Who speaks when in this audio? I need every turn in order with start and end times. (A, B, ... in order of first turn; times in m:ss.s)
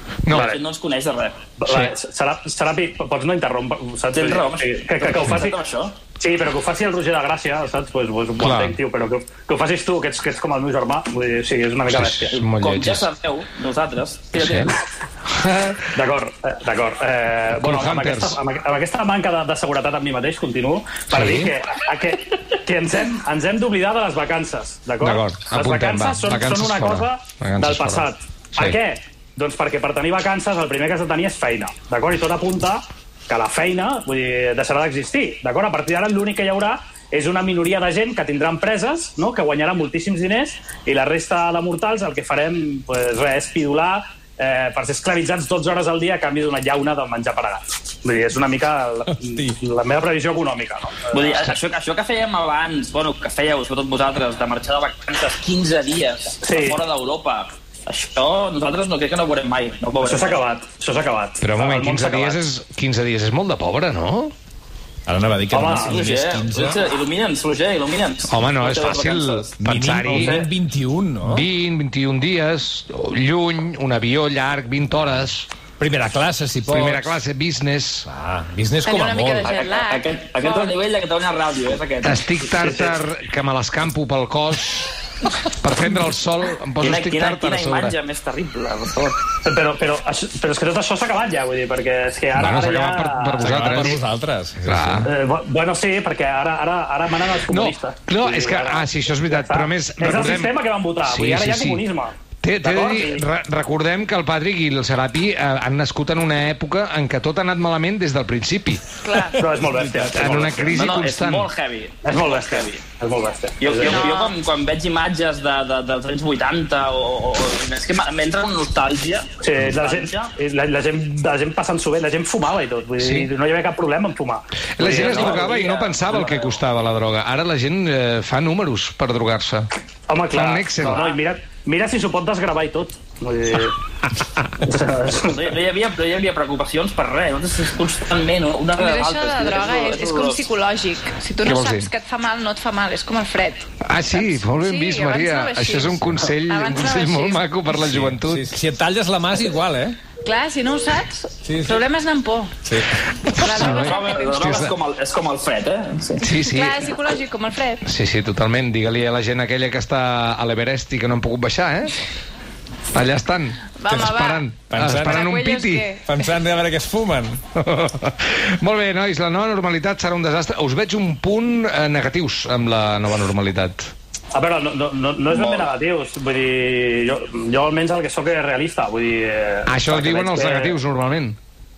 0:00.2-0:00.5 A
0:00.3-0:00.6 B
0:00.3-0:01.4 C
0:01.6-0:05.6 B
0:01.7-0:01.9 A
0:04.1-0:06.0 C
0:06.2-0:12.4 B
0:08.4-0:08.8 A
0:11.9-0:13.1 A
0:12.3-0:14.8 C
0:14.3-0:14.8 A
0:15.3-0:15.9 A
0:16.0-0:51.6 B
0:17.6-0:18.4 A
0:21.1-0:21.5 A
0:25.0-0:28.8 A
0:49.2-0:49.6 D
0:51.1-1:00.4 C
0:56.4-0:56.8 B
1:00.0-1:02.4 B
1:01.4-1:04.3 A
1:05.1-1:06.8 D
1:05.5-1:06.1 B
1:05.8-1:09.6 C
1:08.3-1:10.4 A
1:09.6-1:11.5 D
1:10.1-1:10.5 C
1:11.2-1:15.5 A
1:15.8-1:17.2 D
1:16.7-1:18.1 A
1:18.1-1:19.5 D
1:18.8-1:20.8 E
1:19.4-1:22.5 C
1:22.0-1:24.9 A
1:22.6-1:23.0 B
1:25.4-1:28.0 A
1:26.8-1:29.2 C
1:29.4-1:34.0 B
1:32.4-1:34.0 A
1:33.4-1:35.1 D
1:34.7-1:35.1 A
1:35.1-1:43.2 B
1:37.5-1:41.8 A
1:42.4-1:48.8 A
1:49.0-1:49.4 E
1:49.3-1:50.5 D
1:49.4-1:50.8 B
1:50.1-1:51.5 A
1:50.7-1:52.8 C
1:52.0-1:54.1 B
1:53.6-2:00.3 C
1:53.9-1:54.4 E
1:59.4-2:05.6 B
2:03.0-2:03.3 A
2:04.8-2:09.7 A
2:04.8-2:06.6 C
2:10.1-2:13.8 B
2:10.3-2:11.0 A
2:10.8-2:11.2 C
2:14.6-2:15.4 B
2:15.2-2:20.4 C
2:18.8-2:23.7 E
2:21.4-2:21.9 A
2:23.8-2:28.5 A
2:24.2-2:27.5 E
2:27.8-2:30.0 D
2:30.2-2:32.6 E
2:31.4-2:31.8 D
2:32.6-2:32.9 D
2:33.2-2:34.7 A
2:33.3-2:34.7 E
2:33.5-2:36.3 C
2:36.2-2:36.9 A
2:36.4-2:37.8 E
2:37.8-2:42.0 A
2:42.9-2:46.0 A
2:43.8-2:44.5 E
2:43.9-2:44.1 D
2:44.7-2:45.3 D
2:45.0-2:46.1 E
2:46.1-2:47.4 D
2:47.6-2:53.9 A
2:54.3-3:00.8 B
2:55.3-2:55.7 C
2:59.7-3:01.4 A